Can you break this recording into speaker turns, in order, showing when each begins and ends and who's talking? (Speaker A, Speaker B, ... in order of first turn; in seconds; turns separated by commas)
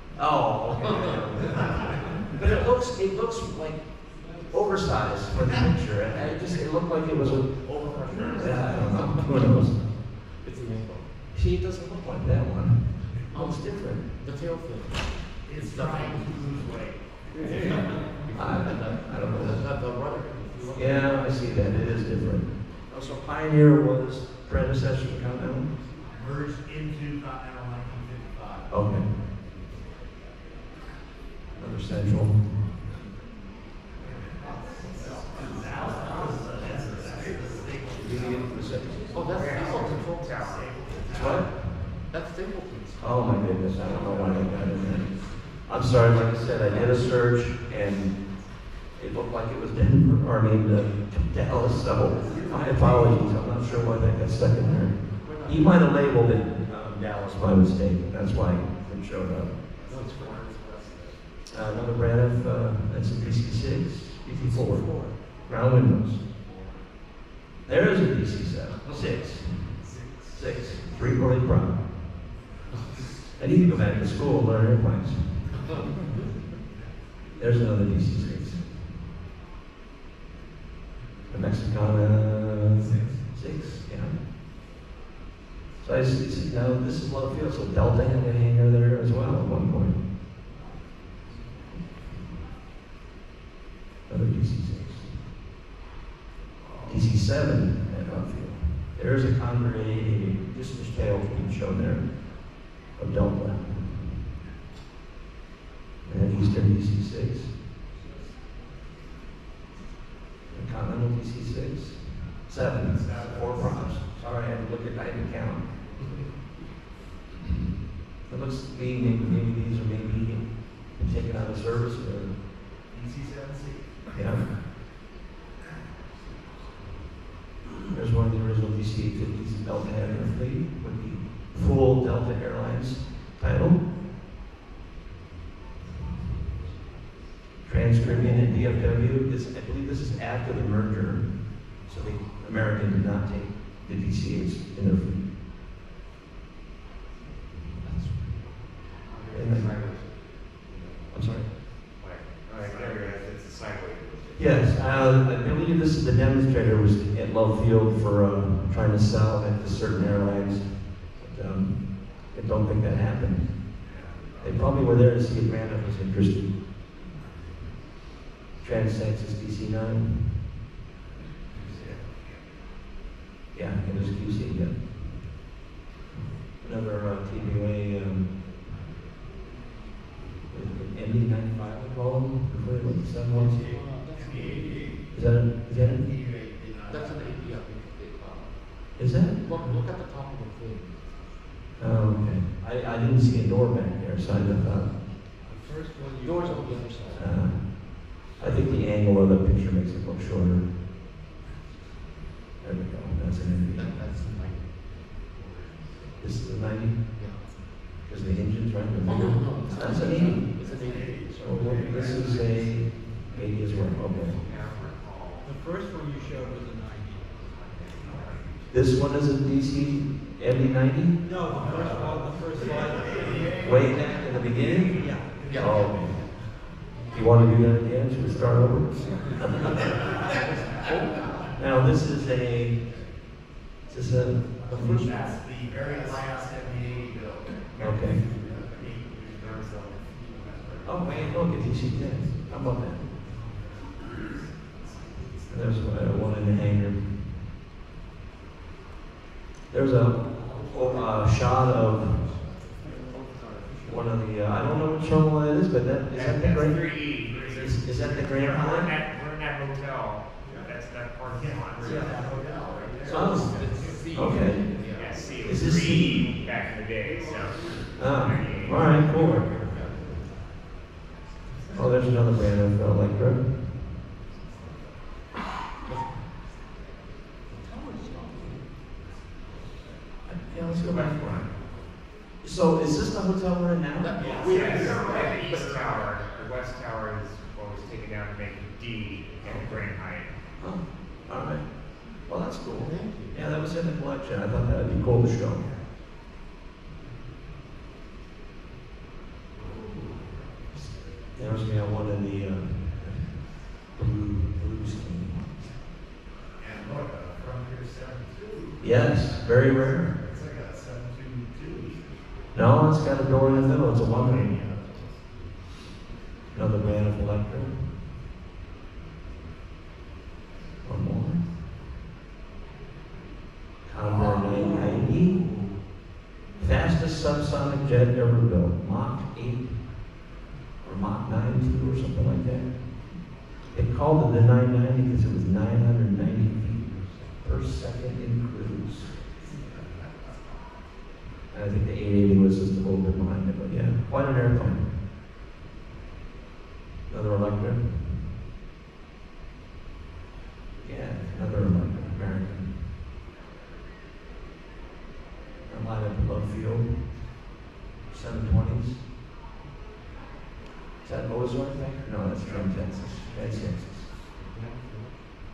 Speaker A: 0.1-9.9, Speaker B: 1.4-2.2, Speaker C: 6.1-9.5, Speaker B: 7.7-8.7, Speaker C: 10.4-11.3, Speaker A: 11.3-14.1, Speaker C: 13.3-16.7, Speaker B: 15.4-18.0, Speaker C: 17.4-21.3, Speaker A: 18.3-19.7, Speaker A: 20.7-25.7, Speaker B: 26.1-28.7, Speaker A: 28.7-29.1, Speaker A: 31.6-32.6, Speaker B: 34.0-41.6, Speaker C: 36.0-36.4, Speaker A: 37.9-39.3, Speaker C: 39.1-40.4, Speaker D: 39.3-40.9, Speaker A: 41.1-41.9, Speaker C: 42.1-44.8, Speaker A: 43.0-59.6, Speaker B: 43.9-44.6, Speaker C: 46.6-47.0, Speaker B: 52.1-53.1, Speaker C: 55.2-55.6, Speaker B: 59.7-61.2, Speaker C: 59.9-60.7, Speaker A: 61.5-66.2, Speaker E: 64.3-65.2, Speaker A: 67.7-71.8, Speaker B: 69.8-70.2, Speaker A: 73.3-75.6, Speaker A: 77.4-78.8, Speaker A: 81.3-84.2, Speaker B: 82.8-83.2, Speaker A: 85.8-90.0, Speaker A: 94.1-95.2, Speaker B: 96.6-97.1, Speaker A: 96.8-104.2, Speaker A: 106.0-107.5, Speaker B: 108.0-108.4, Speaker A: 110.5-116.3, Speaker B: 112.8-114.0, Speaker A: 118.3-122.4, Speaker B: 122.9-124.1, Speaker A: 124.1-124.6, Speaker A: 127.9-133.8, Speaker A: 137.6-145.3, Speaker C: 147.8-148.5, Speaker C: 149.1-150.1, Speaker A: 149.3-149.8, Speaker D: 149.3-150.0, Speaker C: 150.7-151.0, Speaker A: 151.1-151.5, Speaker D: 151.9-155.0, Speaker B: 152.6-153.4, Speaker A: 154.3-163.7, Speaker B: 163.8-164.5, Speaker A: 164.4-166.5, Speaker B: 167.2-167.6, Speaker A: 168.6-170.4, Speaker B: 171.6-172.4, Speaker A: 173.5-175.4, Speaker A: 176.5-178.4, Speaker A: 180.5-183.9, Speaker B: 183.3-185.1, Speaker C: 183.3-184.9, Speaker A: 185.1-186.1, Speaker B: 185.7-187.6, Speaker C: 186.9-191.4, Speaker A: 188.9-189.8, Speaker A: 191.8-195.0, Speaker E: 195.4-197.3, Speaker C: 196.2-197.5, Speaker A: 197.1-200.7, Speaker A: 202.6-204.0, Speaker C: 203.7-206.2, Speaker A: 206.2-214.4, Speaker C: 207.2-207.5, Speaker C: 209.0-211.4, Speaker B: 209.9-212.8, Speaker D: 214.4-215.5, Speaker E: 215.4-218.1, Speaker D: 217.9-218.5, Speaker B: 218.0-218.3, Speaker A: 218.7-221.6, Speaker E: 221.2-223.6, Speaker B: 221.4-226.4, Speaker A: 223.6-226.6, Speaker E: 225.0-225.4, Speaker C: 225.5-226.2, Speaker A: 227.1-230.0, Speaker C: 230.4-231.2, Speaker A: 231.5-232.8, Speaker A: 233.9-235.2, Speaker B: 234.7-241.2, Speaker A: 237.7-238.2, Speaker A: 240.8-243.1, Speaker A: 245.5-247.4, Speaker A: 249.7-252.4, Speaker C: 252.8-254.1, Speaker A: 253.8-259.0, Speaker D: 256.1-262.1, Speaker B: 257.2-258.6, Speaker B: 261.2-265.2, Speaker E: 261.8-262.5, Speaker C: 263.0-265.4, Speaker A: 263.1-264.9, Speaker D: 264.9-269.0, Speaker A: 265.4-266.3, Speaker A: 267.9-269.5, Speaker B: 268.9-270.1, Speaker A: 271.7-273.7, Speaker C: 275.8-276.1, Speaker C: 277.5-278.7, Speaker A: 280.2-281.5, Speaker D: 280.7-281.6, Speaker A: 282.4-284.8, Speaker C: 284.0-285.9, Speaker B: 284.2-286.4, Speaker D: 284.4-290.3, Speaker A: 290.6-295.7, Speaker C: 292.7-293.4, Speaker A: 300.7-305.8, Speaker B: 306.6-312.2, Speaker A: 308.8-310.1, Speaker A: 312.5-314.6, Speaker B: 313.3-315.2, Speaker A: 316.5-317.8, Speaker A: 320.8-321.4, Speaker A: 323.8-325.6, Speaker B: 324.0-325.7, Speaker A: 326.6-329.8, Speaker A: 330.8-339.1, Speaker B: 339.4-340.7, Speaker A: 341.5-344.9, Speaker A: 347.1-348.2, Speaker A: 350.8-352.8, Speaker A: 355.7-357.1, Speaker A: 358.1-359.0, Speaker A: 361.0-364.1, Speaker B: 362.4-363.7, Speaker C: 364.3-365.2